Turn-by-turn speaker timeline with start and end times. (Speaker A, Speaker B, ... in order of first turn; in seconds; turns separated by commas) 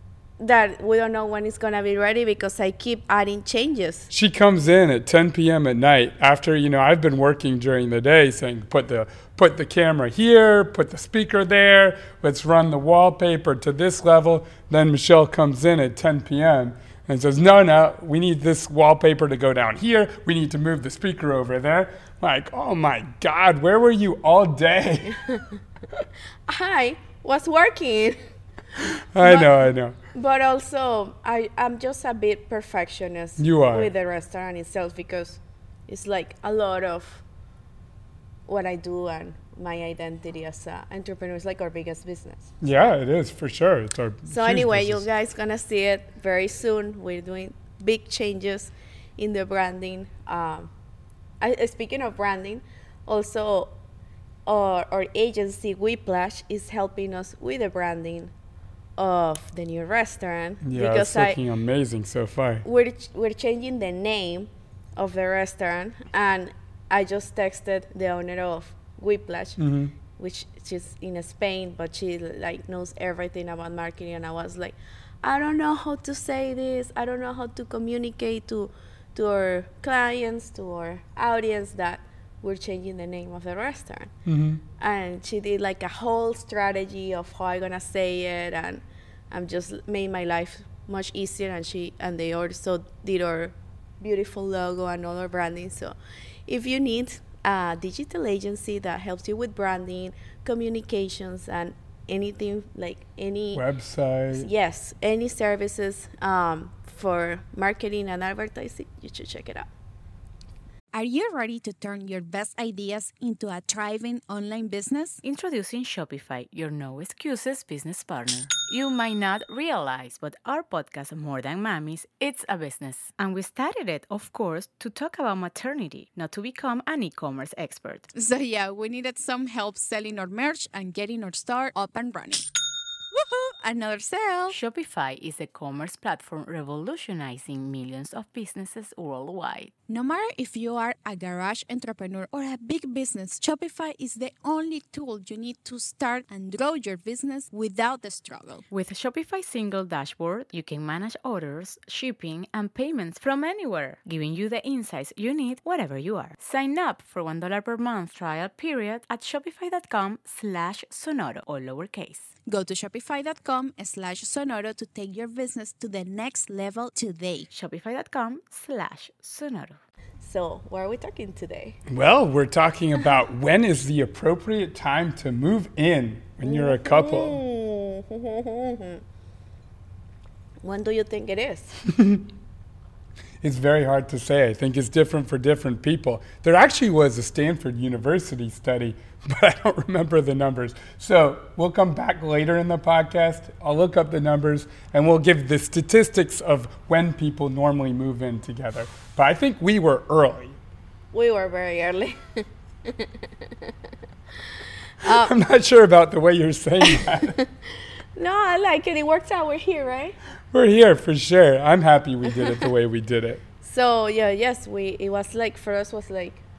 Speaker A: 0.4-4.1, Speaker B: 4.1-25.2, Speaker A: 25.1-25.4, Speaker A: 26.5-28.2, Speaker B: 28.8-30.0, Speaker A: 29.2-37.2, Speaker B: 33.4-33.9, Speaker A: 38.5-42.5, Speaker B: 42.6-45.0, Speaker A: 44.3-50.7, Speaker A: 51.4-53.7, Speaker A: 54.5-58.3, Speaker A: 59.0-61.4, Speaker B: 60.6-62.6, Speaker A: 62.6-84.1, Speaker B: 69.6-70.0, Speaker B: 84.3-84.6, Speaker A: 84.8-96.0, Speaker A: 96.5-103.6, Speaker B: 103.5-104.5, Speaker A: 104.3-109.7, Speaker C: 110.9-115.2, Speaker D: 115.2-128.1, Speaker C: 128.1-132.4, Speaker C: 133.1-134.6, Speaker D: 134.5-139.7, Speaker C: 139.9-148.7, Speaker D: 148.7-162.3, Speaker C: 162.4-167.5, Speaker D: 167.5-169.8, Speaker A: 170.2-171.8, Speaker B: 171.9-177.4, Speaker A: 176.4-179.0, Speaker A: 180.6-181.8, Speaker B: 181.8-182.3, Speaker B: 183.4-200.6, Speaker A: 201.1-203.7, Speaker A: 205.0-205.3, Speaker B: 205.0-207.4, Speaker A: 206.8-207.5, Speaker A: 208.2-210.2, Speaker B: 210.5-213.4, Speaker A: 212.3-212.6, Speaker A: 213.6-216.4